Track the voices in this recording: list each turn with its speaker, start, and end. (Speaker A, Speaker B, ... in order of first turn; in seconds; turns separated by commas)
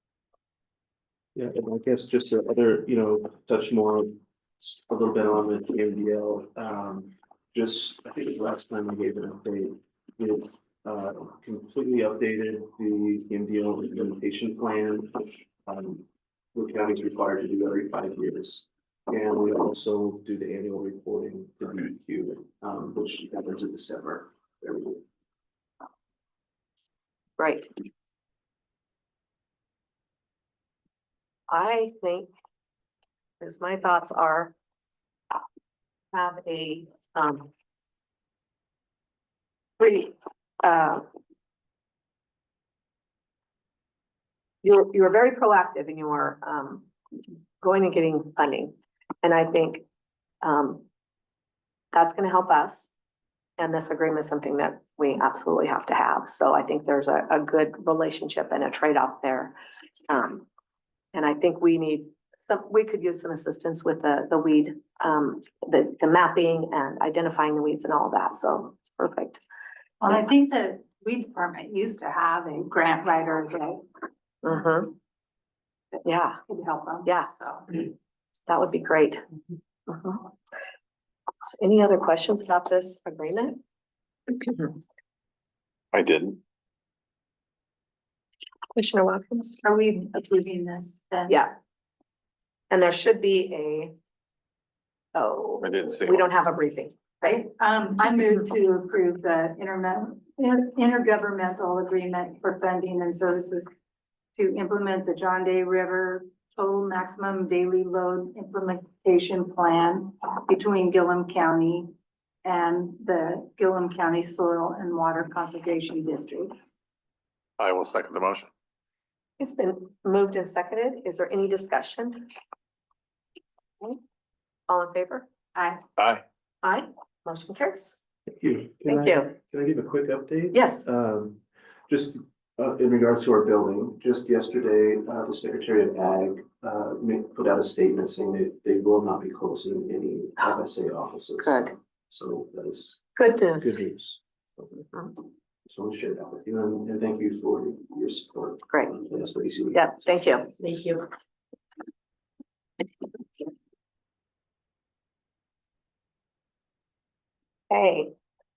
Speaker A: 1.4-25.0, Speaker B: 27.4-27.7, Speaker B: 31.5-32.3, Speaker B: 33.4-34.5, Speaker B: 36.1-37.5, Speaker B: 39.8-41.0, Speaker B: 44.6-46.9, Speaker B: 47.6-49.8, Speaker B: 50.4-50.9, Speaker B: 51.9-52.9, Speaker B: 53.6-59.5, Speaker B: 60.1-60.5, Speaker B: 61.1-69.4, Speaker C: 70.0-73.8, Speaker B: 74.4-74.9, Speaker B: 76.0-76.4, Speaker C: 76.5-77.7, Speaker B: 77.1-77.9, Speaker B: 78.5-79.2, Speaker B: 79.9-80.3, Speaker B: 81.4-83.6, Speaker B: 84.3-84.8, Speaker D: 85.9-86.4, Speaker B: 88.8-89.6, Speaker C: 89.6-91.4, Speaker B: 92.7-93.9, Speaker B: 95.2-97.4, Speaker D: 95.6-96.3, Speaker C: 97.2-103.7, Speaker C: 104.4-111.9, Speaker C: 112.4-116.5, Speaker D: 117.6-118.5, Speaker B: 119.4-122.3, Speaker B: 124.7-125.3, Speaker C: 125.5-125.8, Speaker D: 126.0-126.2, Speaker B: 126.6-128.0, Speaker A: 128.3-143.1, Speaker B: 128.9-129.3, Speaker B: 130.5-130.9, Speaker B: 141.4-141.8, Speaker B: 143.2-143.8, Speaker A: 143.6-144.8, Speaker A: 145.7-150.2, Speaker B: 148.7-149.0, Speaker B: 149.7-151.1, Speaker B: 157.7-158.1